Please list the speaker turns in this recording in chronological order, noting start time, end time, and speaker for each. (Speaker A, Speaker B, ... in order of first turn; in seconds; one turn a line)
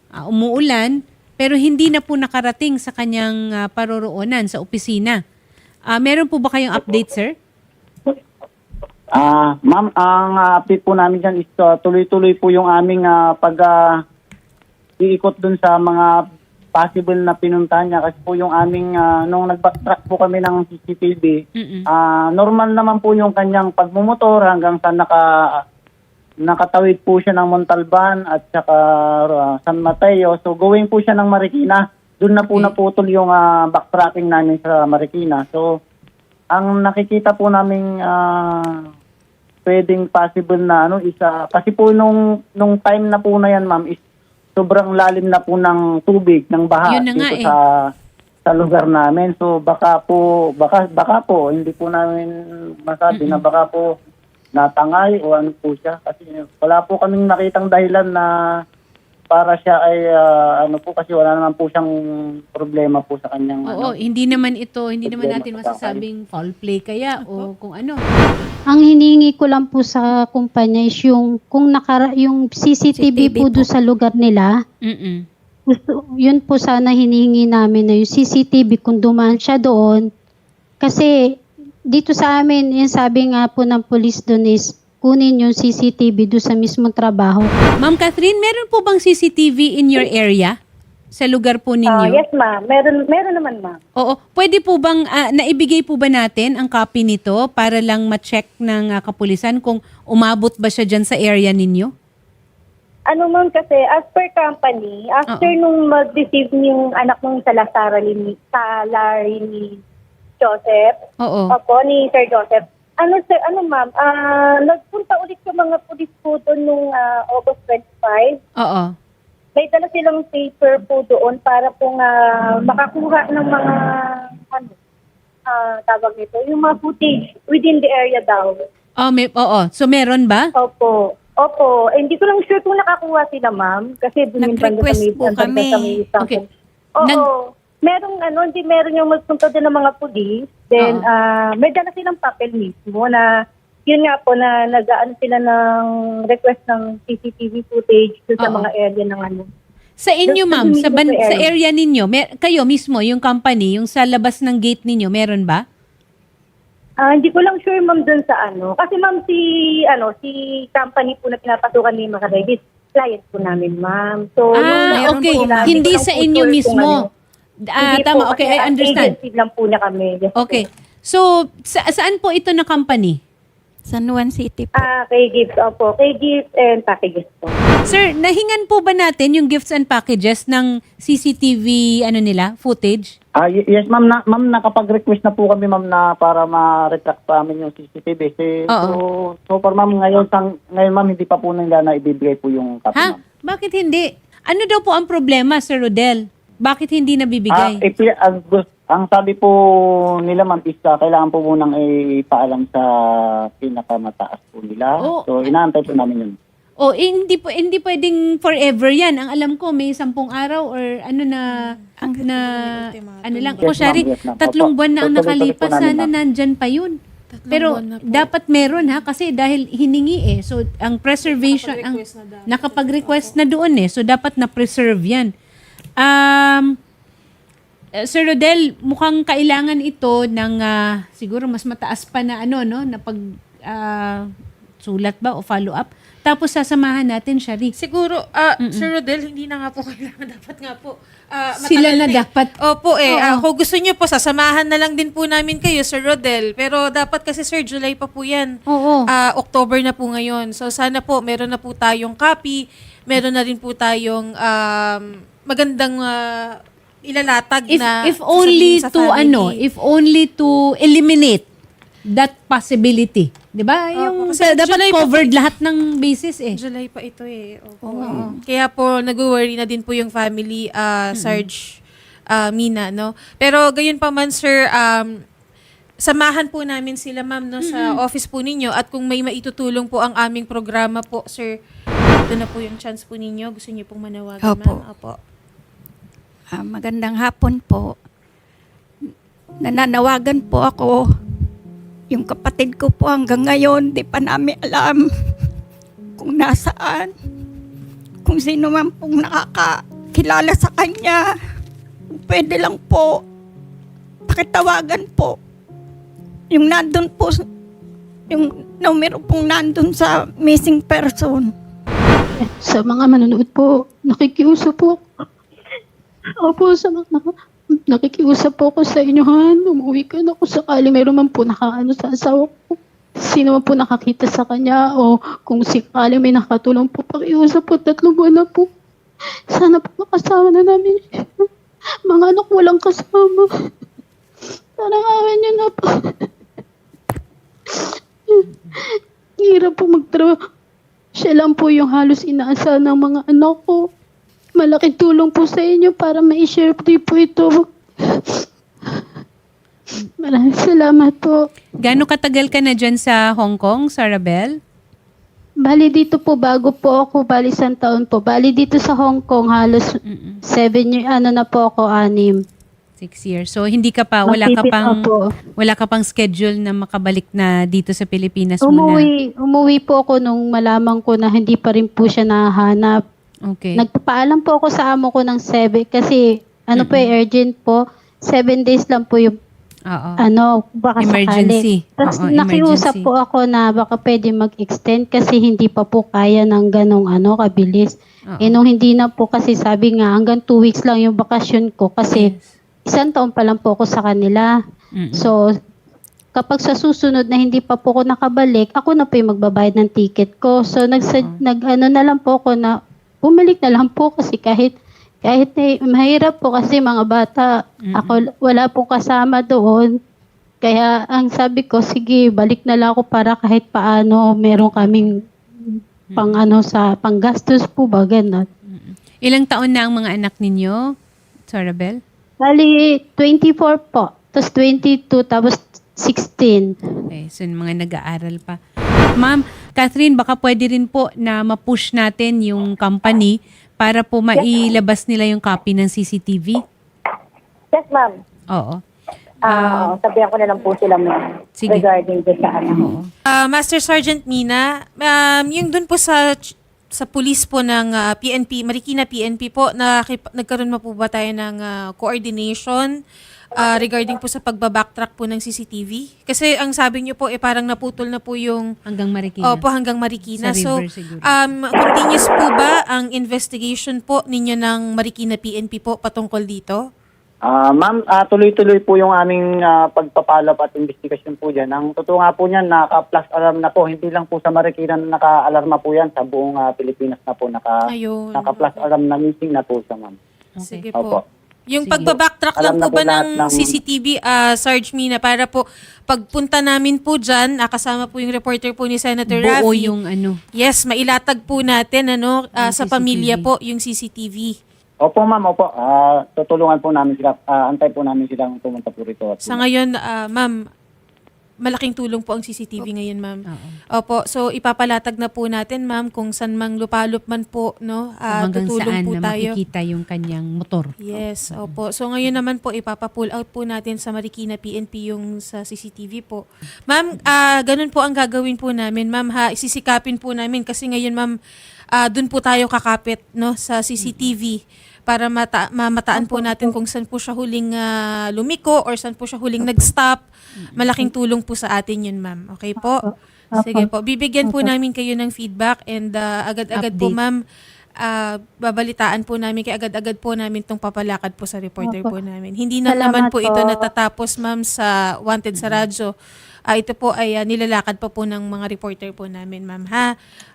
Speaker A: 0.2-5.2
Speaker A: 5.9-7.3
Speaker B: 9.2-13.7
Speaker B: 15.0-16.1
Speaker B: 16.8-25.2
Speaker A: 21.6-21.8
Speaker B: 26.5-35.6
Speaker A: 32.5-32.7
Speaker B: 36.5-38.4
Speaker B: 39.6-44.0
Speaker B: 44.5-47.6
Speaker A: 46.9-47.5
Speaker B: 48.5-52.3
Speaker B: 52.9-53.8
Speaker A: 53.1-53.4
Speaker B: 54.5-58.3
Speaker B: 59.3-61.9
Speaker B: 62.5-63.9
Speaker A: 63.7-68.0
Speaker B: 65.1-66.0
Speaker C: 67.2-67.5
Speaker D: 68.7-74.5
Speaker E: 72.9-73.7
Speaker A: 74.8-75.2
Speaker D: 75.7-80.1
Speaker D: 80.8-81.2
Speaker D: 81.9-87.5
Speaker A: 87.8-90.5
Speaker A: 91.1-92.2
Speaker F: 91.9-93.8
Speaker A: 94.0-101.9
Speaker F: 103.1-109.8
Speaker F: 110.4-110.9
Speaker A: 111.2-111.5
Speaker F: 111.5-118.4
Speaker A: 118.6-118.9
Speaker F: 119.5-123.7
Speaker F: 124.5-124.7
Speaker F: 125.5-128.6
Speaker A: 129.0-130.5
Speaker F: 130.6-136.4
Speaker E: 134.4-136.0
Speaker F: 137.0-143.2
Speaker A: 140.8-141.1
Speaker F: 143.9-149.5
Speaker A: 148.4-148.7
Speaker A: 150.0-155.6
Speaker F: 150.3-151.5
Speaker F: 157.0-167.1
Speaker A: 164.6-167.0
Speaker A: 167.7-169.1
Speaker F: 167.8-170.6
Speaker A: 170.4-173.2
Speaker E: 173.8-174.9
Speaker F: 174.7-177.6
Speaker A: 177.9-183.1
Speaker B: 183.4-193.2
Speaker A: 188.7-189.0
Speaker A: 192.9-197.8
Speaker B: 197.5-199.5
Speaker B: 200.3-202.8
Speaker B: 203.6-206.3
Speaker A: 205.0-205.5
Speaker A: 206.8-211.6
Speaker C: 211.5-213.9
Speaker A: 212.2-216.9
Speaker B: 213.6-216.1
Speaker C: 217.3-218.3
Speaker A: 217.5-225.3
Speaker C: 221.3-223.3
Speaker A: 226.0-226.7
Speaker A: 228.1-234.2
Speaker A: 234.8-237.7
Speaker C: 237.8-248.5
Speaker A: 241.6-242.5
Speaker A: 243.1-243.4
Speaker A: 248.7-249.1
Speaker C: 249.1-259.6
Speaker A: 257.7-261.4
Speaker A: 262.1-266.6
Speaker C: 263.9-265.3
Speaker C: 266.6-271.6
Speaker A: 268.0-268.3
Speaker A: 271.1-271.5
Speaker C: 272.3-275.1
Speaker C: 276.0-281.5
Speaker A: 277.6-278.0
Speaker C: 282.3-285.2
Speaker E: 284.4-284.8
Speaker E: 286.5-288.0
Speaker E: 289.6-291.0
Speaker E: 292.1-295.1
Speaker E: 296.2-297.1
Speaker E: 298.2-301.2
Speaker E: 302.1-303.2
Speaker E: 304.3-305.4
Speaker E: 306.5-307.4
Speaker E: 308.3-311.5
Speaker D: 312.4-315.0
Speaker D: 316.4-317.3
Speaker D: 317.9-328.7
Speaker D: 329.5-331.4
Speaker D: 332.1-333.4
Speaker D: 334.8-336.2
Speaker D: 338.9-340.4
Speaker D: 341.1-343.9
Speaker D: 344.6-348.1
Speaker D: 350.2-351.4
Speaker A: 351.8-354.5
Speaker D: 355.6-362.4
Speaker A: 360.1-360.4
Speaker A: 363.0-369.1
Speaker D: 364.2-365.2
Speaker D: 368.6-373.0
Speaker A: 373.5-373.8
Speaker D: 373.8-379.4
Speaker A: 376.7-377.1
Speaker A: 379.9-380.2
Speaker D: 380.2-392.3
Speaker A: 381.0-383.1
Speaker A: 388.3-388.6
Speaker D: 392.9-394.5
Speaker A: 394.9-395.3
Speaker D: 396.3-409.9
Speaker A: 407.9-408.2
Speaker D: 410.6-418.5
Speaker A: 416.1-416.4
Speaker A: 418.7-420.8
Speaker A: 421.5-422.0
Speaker D: 422.4-426.7
Speaker A: 427.1-428.6
Speaker A: 429.2-436.6
Speaker F: 434.4-434.7
Speaker F: 437.7-438.1
Speaker A: 438.5-438.8
Speaker F: 439.5-442.9
Speaker A: 439.5-439.9
Speaker A: 441.6-441.8
Speaker A: 442.7-443.1
Speaker C: 443.3-452.9
Speaker C: 453.5-458.7
Speaker A: 458.9-459.6
Speaker C: 459.4-460.7
Speaker A: 460.3-461.4
Speaker C: 461.2-466.8
Speaker B: 467.5-477.8
Speaker C: 477.9-478.8
Speaker B: 478.3-480.2
Speaker A: 480.6-480.9
Speaker C: 480.6-481.2
Speaker B: 480.9-481.2
Speaker C: 481.7-489.9
Speaker A: 481.8-482.1
Speaker B: 482.6-483.8
Speaker A: 489.3-490.4
Speaker C: 490.6-494.5
Speaker A: 492.6-493.5
Speaker B: 495.0-499.6
Speaker C: 499.4-500.5
Speaker C: 501.6-503.4
Speaker A: 503.5-503.8
Speaker C: 503.9-509.5
Speaker A: 508.3-511.8
Speaker C: 511.0-521.3
Speaker C: 522.0-530.2
Speaker A: 524.0-524.3
Speaker A: 530.6-531.0
Speaker C: 530.8-533.0
Speaker C: 533.5-537.4
Speaker D: 533.6-533.8
Speaker A: 536.7-537.1
Speaker C: 538.0-546.1
Speaker D: 541.8-542.1
Speaker D: 542.9-543.8
Speaker A: 545.5-545.8
Speaker C: 546.7-550.1